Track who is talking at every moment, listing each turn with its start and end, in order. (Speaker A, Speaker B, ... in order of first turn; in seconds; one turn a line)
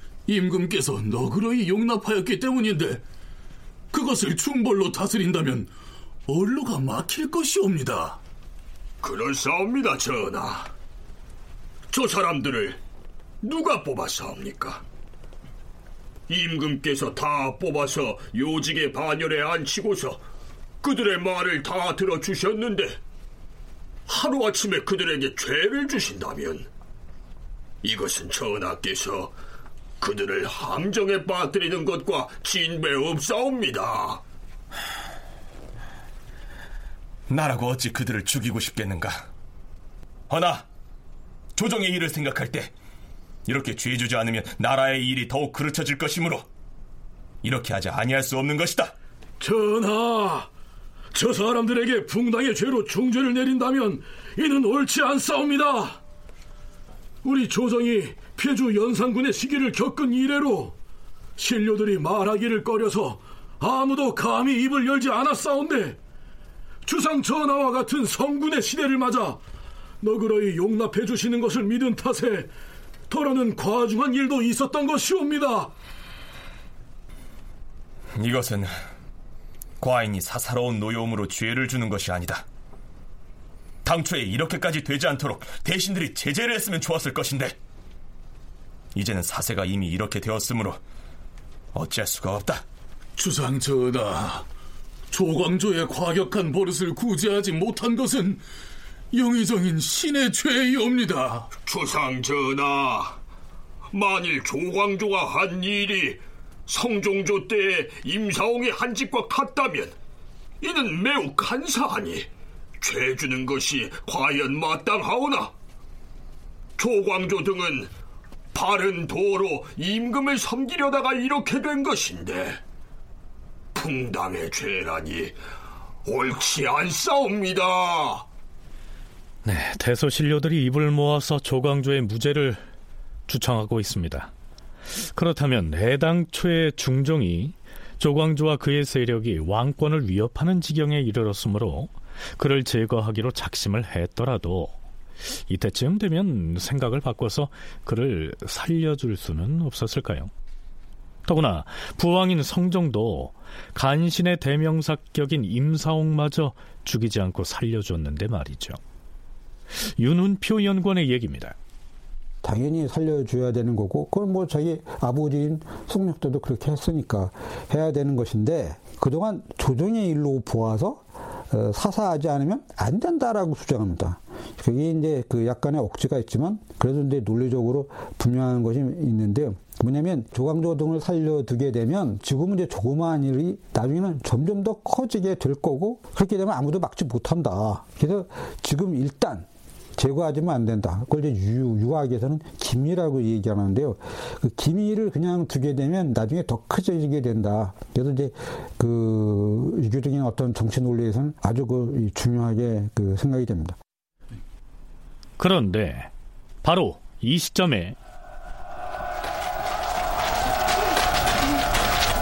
Speaker A: 0.3-3.0
Speaker A: 3.9-5.7
Speaker A: 6.3-8.2
Speaker B: 9.0-10.7
Speaker B: 11.9-12.8
Speaker B: 13.4-14.8
Speaker B: 16.3-20.2
Speaker B: 20.8-23.0
Speaker B: 24.1-26.7
Speaker B: 27.8-29.3
Speaker B: 30.0-34.2
Speaker C: 37.3-39.2
Speaker C: 40.3-40.6
Speaker C: 41.5-42.7
Speaker C: 43.5-46.4
Speaker C: 47.4-48.9
Speaker D: 49.4-50.5
Speaker D: 51.1-56.0
Speaker D: 57.2-60.8
Speaker D: 61.4-66.0
Speaker D: 66.8-69.4
Speaker D: 70.0-72.5
Speaker D: 73.1-75.7
Speaker C: 78.1-78.7
Speaker C: 79.8-82.4
Speaker C: 83.8-87.5
Speaker C: 88.9-90.8
Speaker C: 91.7-92.6
Speaker A: 93.2-94.5
Speaker A: 95.1-98.4
Speaker A: 99.1-101.5
Speaker B: 101.6-103.2
Speaker B: 103.9-109.9
Speaker B: 110.6-112.3
Speaker B: 112.8-115.5
Speaker B: 116.8-117.9
Speaker B: 118.5-122.6
Speaker B: 123.7-125.4
Speaker B: 126.0-128.2
Speaker E: 129.4-132.7
Speaker E: 133.3-134.3
Speaker E: 135.1-144.8
Speaker E: 145.5-150.3
Speaker E: 151.2-158.8
Speaker E: 160.0-161.6
Speaker F: 162.4-203.8
Speaker E: 205.4-206.1
Speaker E: 206.6-207.9